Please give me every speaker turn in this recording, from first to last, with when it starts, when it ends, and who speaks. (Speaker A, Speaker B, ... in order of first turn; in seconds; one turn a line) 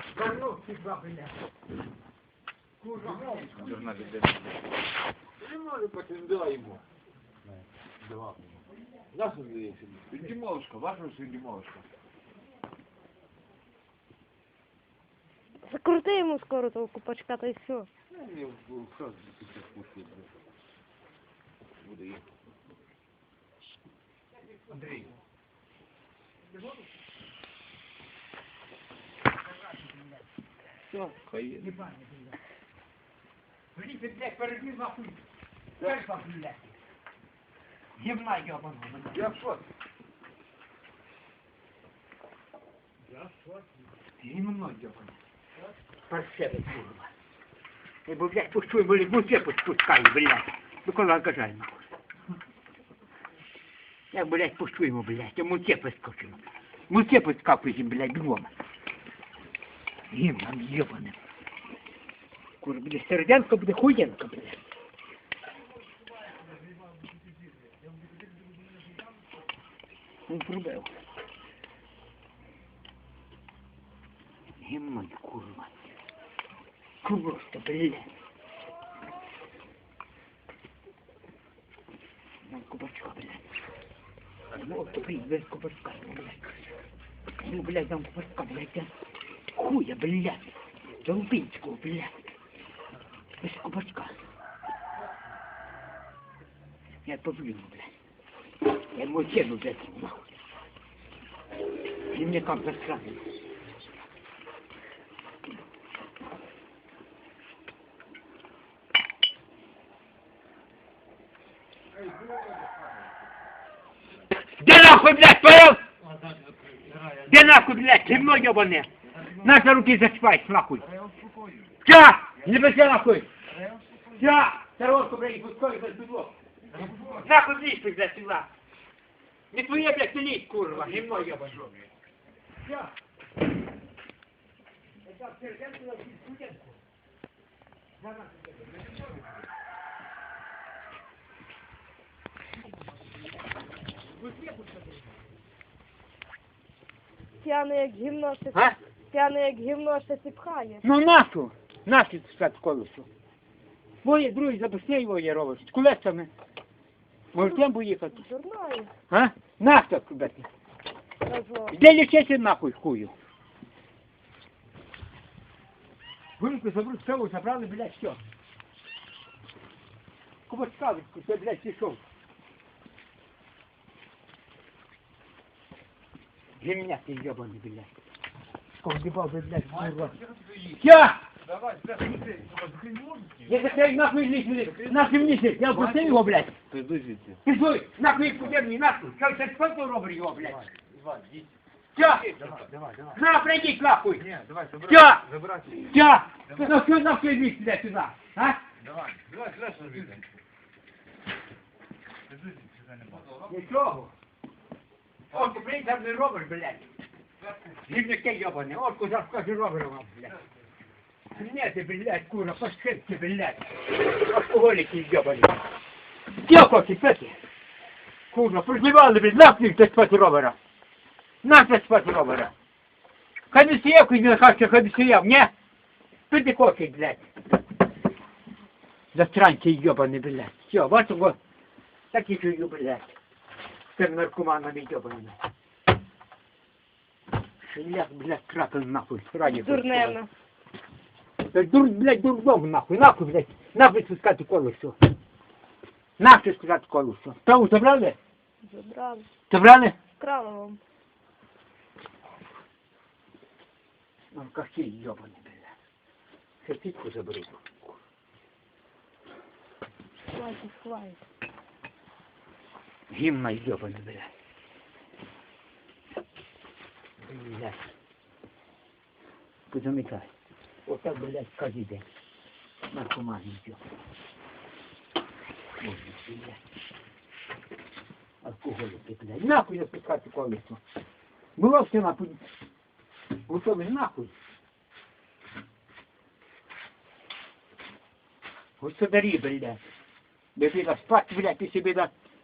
Speaker A: 0.1-1.3
Speaker A: 2.8-3.9
Speaker B: 3.0-4.4
Speaker B: 5.4-6.8
Speaker B: 8.0-8.4
Speaker B: 9.1-11.9
Speaker C: 15.7-17.9
Speaker B: 18.1-20.3
Speaker B: 21.8-22.2
Speaker B: 24.7-25.0
Speaker A: 29.7-30.2
Speaker B: 30.9-31.6
Speaker A: 31.6-32.4
Speaker A: 33.7-35.2
Speaker A: 35.8-36.7
Speaker A: 38.0-39.4
Speaker B: 39.1-39.7
Speaker A: 44.2-45.2
Speaker A: 46.1-47.1
Speaker A: 48.1-51.9
Speaker A: 54.1-58.5
Speaker A: 60.1-61.2
Speaker A: 62.6-64.6
Speaker B: 66.5-68.5
Speaker A: 70.3-70.9
Speaker A: 74.6-75.8
Speaker A: 77.0-78.1
Speaker A: 82.5-83.5
Speaker A: 84.5-86.7
Speaker A: 87.4-88.9
Speaker A: 89.5-92.2
Speaker A: 93.4-94.2
Speaker A: 97.0-97.9
Speaker A: 98.7-100.3
Speaker A: 102.0-103.3
Speaker B: 111.9-113.0
Speaker A: 114.6-115.8
Speaker B: 116.2-117.2
Speaker A: 117.2-120.9
Speaker B: 119.2-119.5
Speaker B: 120.9-121.7
Speaker A: 121.8-123.3
Speaker B: 123.5-124.2
Speaker A: 124.1-128.5
Speaker B: 126.7-127.3
Speaker A: 129.5-131.7
Speaker B: 130.9-131.8
Speaker A: 132.6-132.9
Speaker A: 135.1-136.8
Speaker A: 138.0-138.9
Speaker A: 144.2-144.8
Speaker C: 147.4-150.9
Speaker A: 150.8-153.1
Speaker A: 154.0-156.3
Speaker A: 157.3-158.2
Speaker C: 157.4-158.9
Speaker A: 159.1-160.5
Speaker C: 161.2-161.8
Speaker A: 161.7-163.1
Speaker A: 166.4-168.2
Speaker A: 170.5-172.0
Speaker A: 176.6-177.9
Speaker A: 178.8-180.2
Speaker B: 179.7-180.8
Speaker A: 180.7-181.2
Speaker B: 181.4-183.4
Speaker A: 183.4-186.6
Speaker B: 184.8-185.1
Speaker B: 185.7-187.4
Speaker A: 187.4-190.6
Speaker B: 190.6-191.5
Speaker A: 191.9-192.4
Speaker B: 192.2-193.2
Speaker A: 193.1-194.3
Speaker B: 194.2-195.9
Speaker A: 194.8-195.2
Speaker A: 195.8-198.6
Speaker B: 198.8-200.3
Speaker B: 202.3-203.5
Speaker A: 203.5-204.1
Speaker A: 205.3-206.9
Speaker A: 207.7-210.4
Speaker A: 211.3-215.6
Speaker A: 216.4-217.4
Speaker A: 218.3-220.6
Speaker A: 221.4-222.5
Speaker A: 223.5-225.5
Speaker A: 226.3-227.2
Speaker A: 229.1-231.4
Speaker A: 232.1-233.1
Speaker A: 233.9-235.4
Speaker A: 237.6-240.2
Speaker C: 239.4-240.3
Speaker A: 241.5-245.0
Speaker A: 246.2-248.2
Speaker C: 248.6-249.3
Speaker A: 249.5-250.0
Speaker C: 250.2-250.8
Speaker A: 254.3-255.7
Speaker A: 256.6-258.0
Speaker C: 260.3-261.2
Speaker A: 263.1-264.3
Speaker A: 267.2-267.8
Speaker A: 269.7-270.3
Speaker A: 270.9-272.1
Speaker A: 272.9-273.8
Speaker A: 275.8-276.6
Speaker A: 278.4-280.8
Speaker A: 281.6-282.4
Speaker A: 283.5-284.3
Speaker A: 288.8-289.8
Speaker A: 290.6-292.1